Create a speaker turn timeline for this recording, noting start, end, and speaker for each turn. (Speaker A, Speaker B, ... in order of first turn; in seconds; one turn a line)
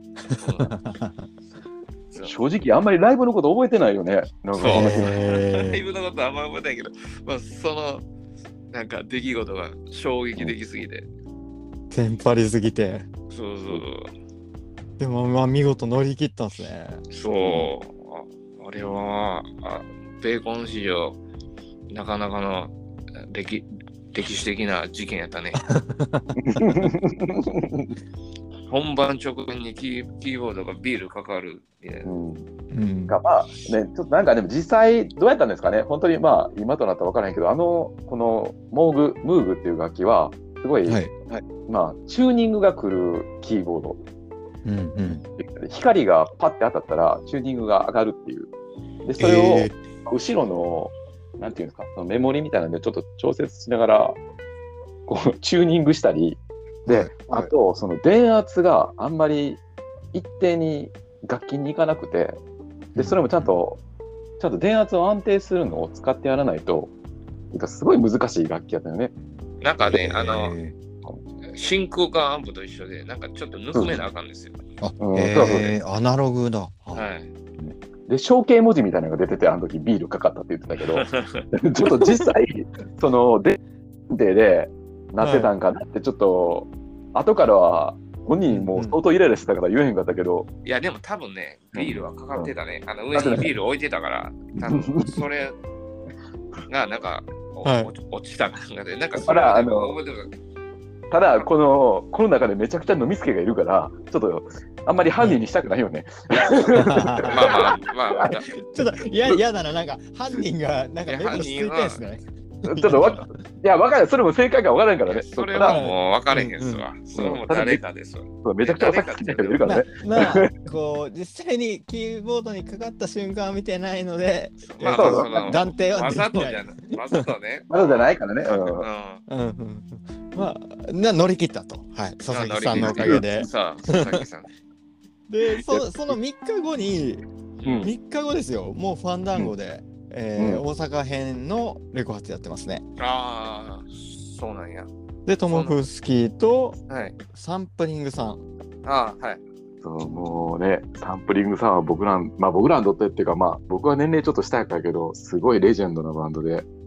Speaker A: 0.4-0.7
Speaker B: 0.6-1.3
Speaker C: 2.2-5.2
Speaker A: 4.5-8.1
Speaker B: 4.6-5.8
Speaker A: 8.7-11.1
Speaker B: 11.9-13.1
Speaker A: 13.3-14.1
Speaker B: 15.0-17.0
Speaker A: 17.1-21.2
Speaker A: 21.9-25.6
Speaker B: 25.6-26.4
Speaker C: 26.4-27.9
Speaker A: 28.7-32.1
Speaker C: 32.0-32.5
Speaker B: 32.7-33.2
Speaker C: 33.1-44.0
Speaker B: 40.9-41.1
Speaker B: 44.6-45.2
Speaker C: 45.1-48.5
Speaker C: 49.0-54.2
Speaker B: 49.2-49.7
Speaker C: 55.1-59.6
Speaker B: 56.9-57.5
Speaker C: 60.1-62.4
Speaker B: 63.0-63.5
Speaker C: 63.0-63.8
Speaker C: 64.4-66.9
Speaker C: 67.5-69.1
Speaker A: 69.6-70.5
Speaker B: 69.9-70.8
Speaker A: 71.5-74.6
Speaker C: 73.7-74.0
Speaker B: 74.8-77.0
Speaker C: 75.0-75.7
Speaker A: 76.9-77.3
Speaker C: 77.6-83.6
Speaker A: 80.8-81.5
Speaker B: 81.9-82.3
Speaker C: 84.1-90.5
Speaker B: 85.2-85.5
Speaker B: 88.5-89.0
Speaker A: 90.7-95.6
Speaker C: 91.7-92.5
Speaker C: 93.1-93.5
Speaker C: 94.6-95.2
Speaker A: 96.7-100.3
Speaker B: 97.6-97.9
Speaker C: 99.2-99.9
Speaker C: 101.1-108.3
Speaker B: 106.7-107.7
Speaker A: 107.3-108.6
Speaker B: 108.5-113.4
Speaker A: 111.1-112.0
Speaker C: 112.7-115.8
Speaker A: 115.1-119.8
Speaker B: 115.6-116.9
Speaker C: 117.1-117.8
Speaker C: 118.4-120.5
Speaker B: 119.6-127.2
Speaker A: 124.6-127.9
Speaker C: 124.9-125.6
Speaker C: 127.7-128.9
Speaker A: 128.5-129.2
Speaker B: 129.3-134.1
Speaker A: 132.3-134.5
Speaker C: 132.8-133.2
Speaker B: 135.3-137.2
Speaker C: 135.4-135.9
Speaker A: 137.6-137.9
Speaker C: 137.7-137.9
Speaker B: 137.8-142.8
Speaker C: 140.4-140.6
Speaker A: 143.0-144.9
Speaker B: 145.3-146.8
Speaker A: 145.5-145.8
Speaker A: 146.9-147.2
Speaker B: 147.3-148.4
Speaker A: 148.8-149.4
Speaker C: 149.8-156.7